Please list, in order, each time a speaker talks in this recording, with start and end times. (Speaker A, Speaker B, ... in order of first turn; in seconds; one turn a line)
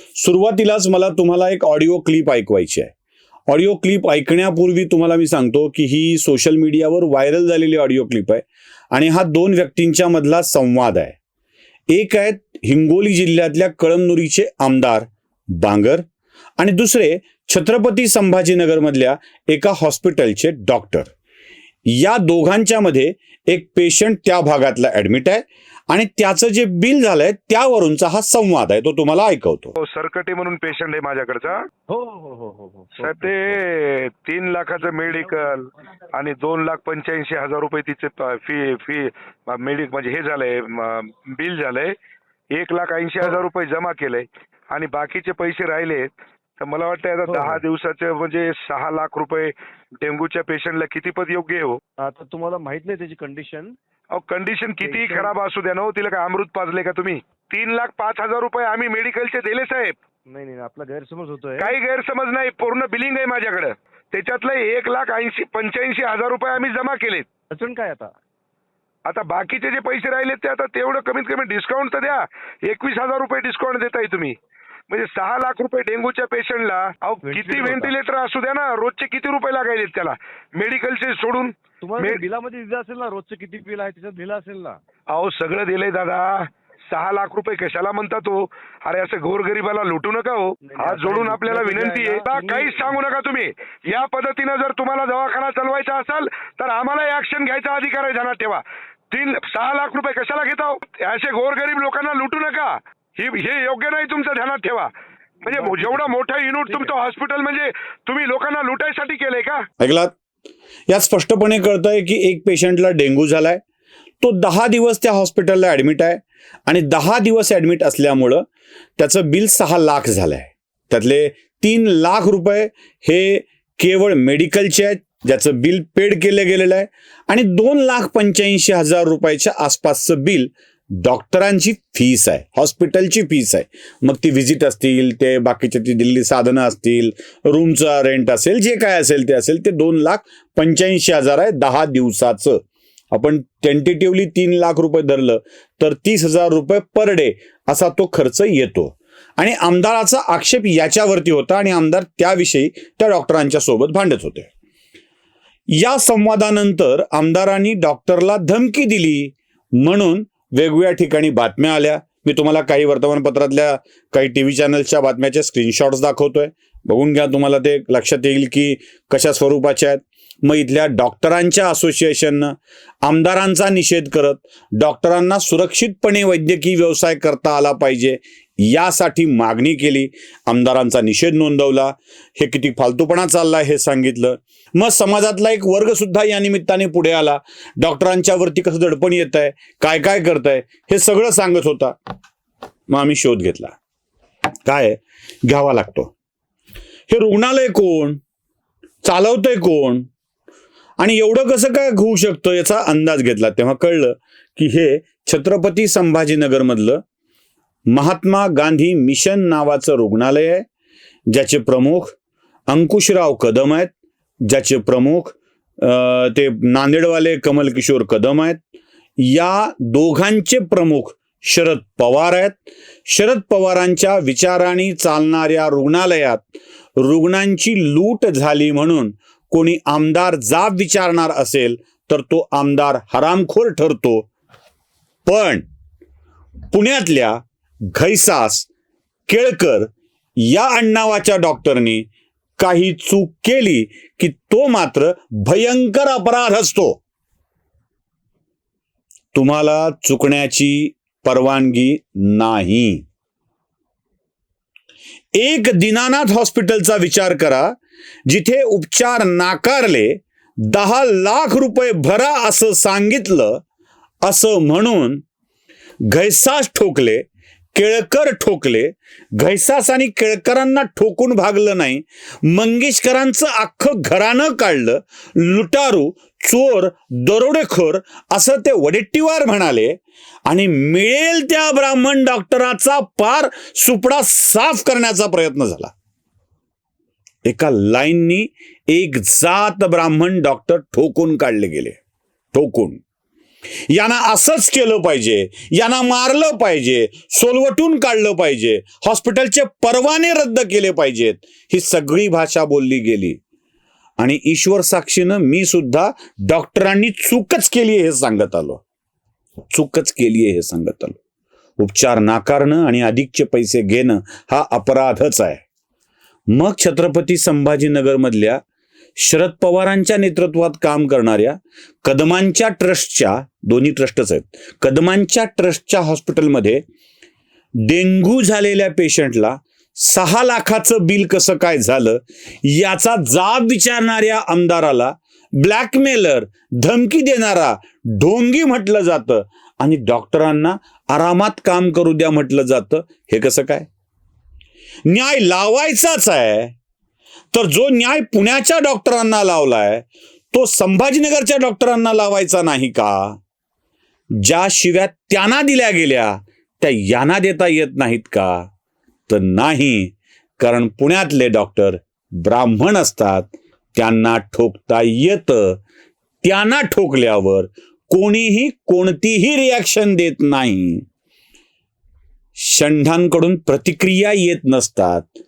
Speaker A: 0.2-2.9
Speaker A: 3.5-11.2
Speaker A: 11.9-16.1
Speaker A: 16.6-21.1
Speaker A: 21.9-29.7
Speaker B: 29.8-31.7
Speaker C: 31.9-33.6
Speaker B: 33.0-42.0
Speaker C: 35.1-35.5
Speaker B: 42.5-51.8
Speaker C: 47.3-47.6
Speaker C: 52.0-53.8
Speaker B: 54.1-60.0
Speaker C: 54.8-55.3
Speaker C: 60.3-61.8
Speaker B: 61.6-67.3
Speaker C: 67.5-68.1
Speaker B: 69.1-74.4
Speaker B: 74.9-82.2
Speaker C: 77.2-77.9
Speaker C: 81.8-84.8
Speaker B: 85.1-104.9
Speaker C: 90.6-93.0
Speaker B: 105.4-109.7
Speaker C: 105.5-106.1
Speaker A: 109.8-110.1
Speaker A: 110.9-113.6
Speaker A: 114.2-118.5
Speaker A: 119.0-142.6
Speaker A: 143.1-154.5
Speaker A: 155.7-191.9
Speaker A: 192.9-193.8
Speaker A: 194.7-196.1
Speaker A: 197.1-198.2
Speaker A: 199.0-200.1
Speaker A: 201.0-207.0
Speaker A: 207.9-210.7
Speaker A: 211.3-212.2
Speaker A: 212.7-213.9
Speaker A: 214.5-218.6
Speaker A: 219.2-226.5
Speaker A: 227.0-234.3
Speaker A: 235.3-235.7
Speaker A: 236.7-237.4
Speaker A: 237.9-238.7
Speaker A: 239.3-242.1
Speaker A: 242.6-247.0
Speaker A: 249.3-253.1
Speaker A: 255.3-263.6
Speaker A: 264.2-265.2
Speaker A: 266.1-285.9
Speaker A: 287.5-292.0
Speaker A: 292.5-293.0
Speaker A: 293.9-303.4
Speaker A: 304.2-308.8
Speaker A: 309.7-311.2
Speaker A: 311.8-315.6
Speaker A: 316.5-318.6
Speaker A: 319.2-326.8
Speaker A: 327.8-343.9
Speaker A: 345.1-346.7
Speaker A: 347.5-353.4
Speaker A: 354.4-358.7
Speaker A: 359.3-365.8
Speaker A: 366.4-371.0
Speaker A: 372.6-375.3